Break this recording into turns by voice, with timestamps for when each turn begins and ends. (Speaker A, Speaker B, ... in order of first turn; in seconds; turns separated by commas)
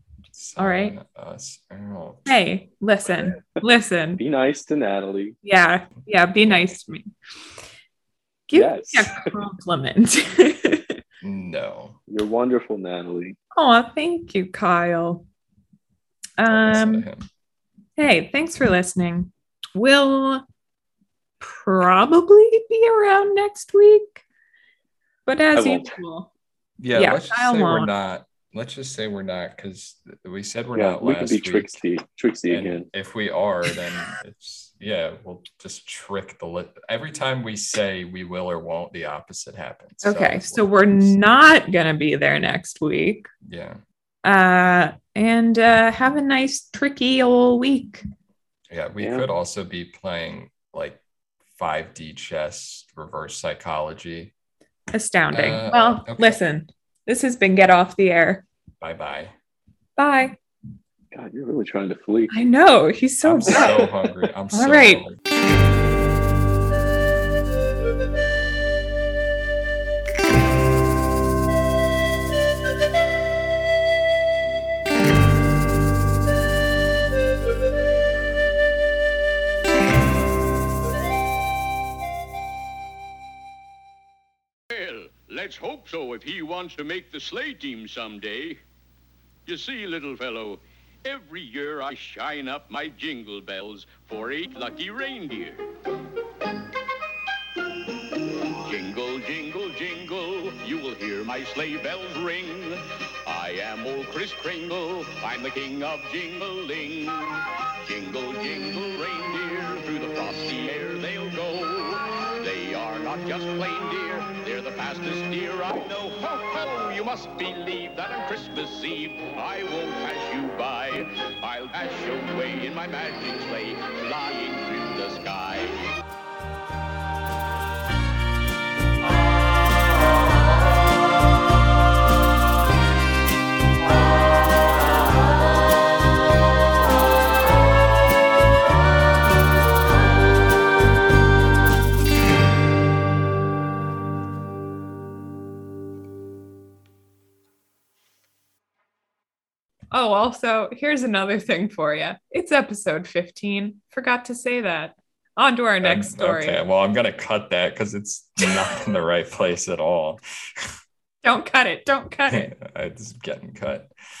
Speaker A: 0.3-2.4, Speaker B: 0.6-0.9, Speaker B: 2.2-4.2, Speaker C: 4.2-5.4, Speaker B: 5.4-7.1, Speaker A: 6.5-6.8, Speaker B: 8.5-11.0, Speaker C: 8.5-9.3, Speaker A: 11.2-12.0, Speaker C: 12.1-13.4, Speaker B: 13.5-15.2, Speaker B: 16.4-17.1, Speaker A: 16.5-17.3, Speaker B: 18.0-20.4, Speaker B: 21.4-24.2, Speaker B: 25.2-26.3, Speaker C: 25.6-25.9, Speaker A: 26.8-31.8, Speaker B: 26.9-27.9, Speaker C: 30.7-32.9, Speaker A: 32.5-41.2, Speaker B: 40.0-43.3, Speaker A: 43.4-43.8, Speaker B: 44.2-48.0, Speaker A: 48.7-54.3, Speaker C: 49.0-49.2, Speaker B: 54.9-58.4, Speaker A: 55.3-56.4, Speaker A: 58.8-59.3, Speaker B: 60.0-60.4, Speaker C: 61.1-62.3, Speaker B: 62.3-63.8, Speaker A: 63.2-65.2, Speaker C: 63.5-63.9, Speaker B: 64.5-65.0, Speaker D: 84.7-88.6, Speaker D: 89.5-95.7, Speaker D: 98.6-125.9, Speaker B: 149.9-156.6, Speaker A: 155.8-160.7, Speaker B: 161.2-162.5, Speaker A: 162.3-163.9